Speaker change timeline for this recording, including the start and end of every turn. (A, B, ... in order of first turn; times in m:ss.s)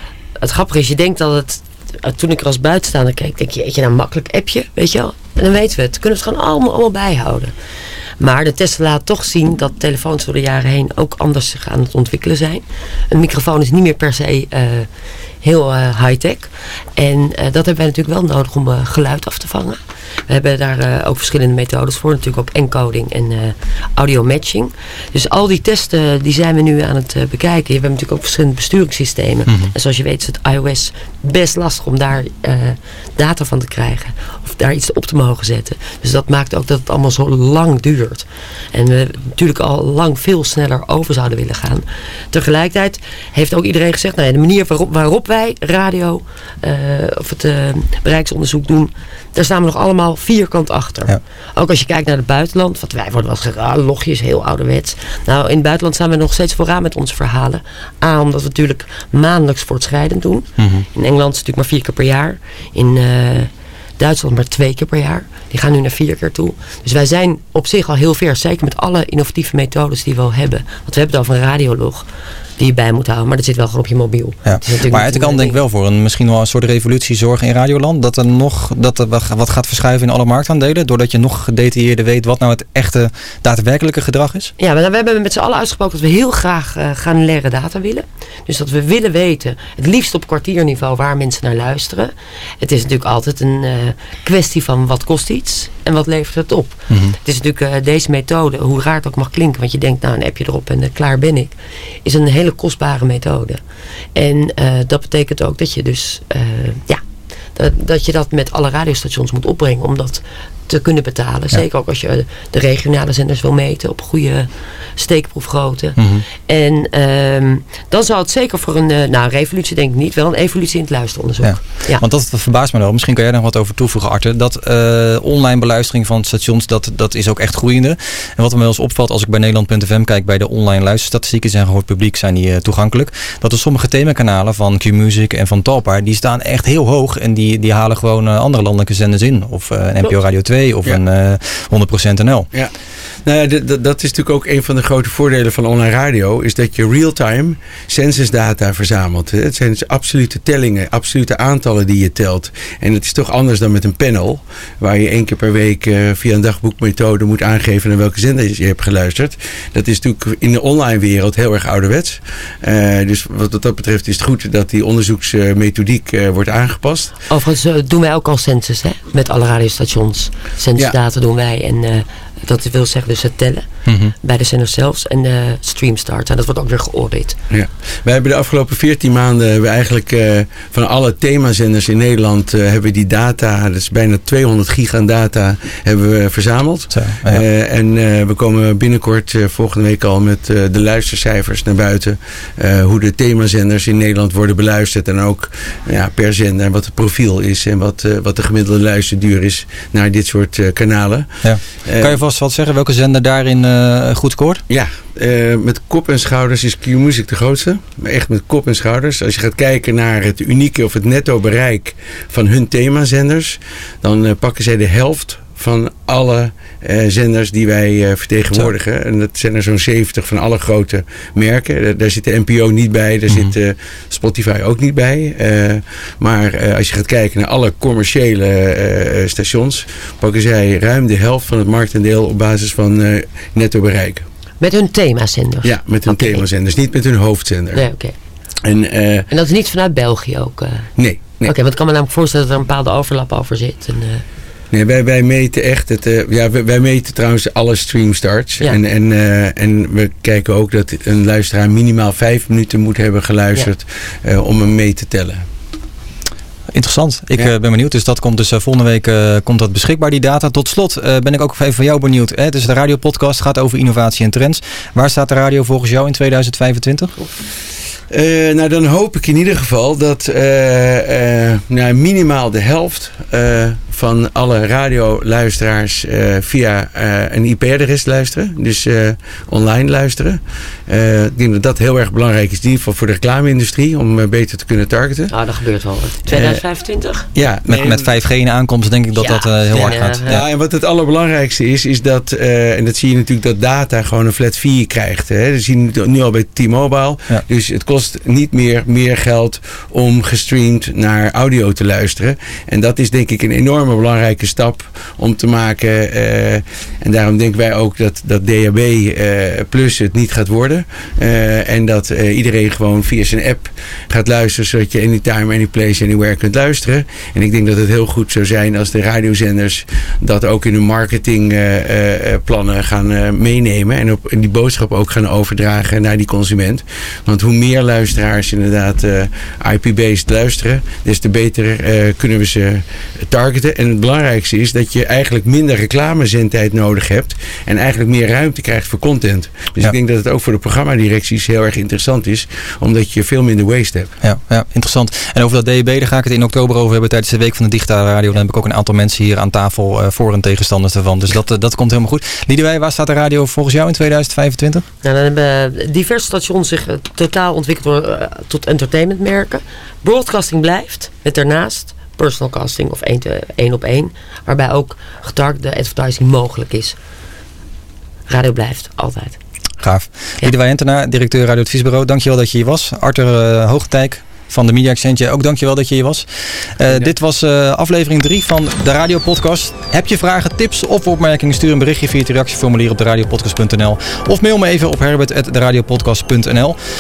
0:00.4-0:07.5 A
0:08.2-0:14.9 A
0:15.4-0:19.8 A
0:20.3-1:12.0 A
0:29.5-0:29.7 B
1:00.6-1:00.9 B
1:12.6-1:15.6 A
1:14.5-1:24.5 B
1:24.6-1:43.6 A
1:36.9-1:37.2 B
1:44.2-1:47.0 A
1:47.6-1:56.0 A
1:56.0-1:56.2 B
1:56.5-2:02.0 A
2:01.4-2:22.5 B
2:23.2-2:47.1 C
2:47.3-2:53.6 A
2:53.9-2:54.1 B
2:54.2-2:57.4 A
2:57.5-3:22.2 C
3:06.9-3:07.4 B
3:21.4-3:24.6 B
3:24.7-3:54.2 C
3:43.3-3:43.5 B
3:54.6-3:56.4 A
3:55.6-3:57.8 C
3:57.7-3:58.1 A
3:58.6-3:59.3 C
3:59.3-4:00.9 A
4:01.0-4:01.5 C
4:01.4-4:04.2 A
4:04.7-4:15.4 C
4:16.7-4:27.2 B
4:28.1-4:45.3 C
4:45.3-4:47.3 A
4:46.3-4:46.6 C
4:47.4-4:48.2 C
4:47.4-4:50.4 B
4:49.2-4:50.4 A
4:49.8-5:44.1 C
5:44.2-5:54.8 B
5:55.0-6:07.0 A
6:08.3-6:09.4 A
6:09.8-6:16.2 B
6:16.8-6:26.8 B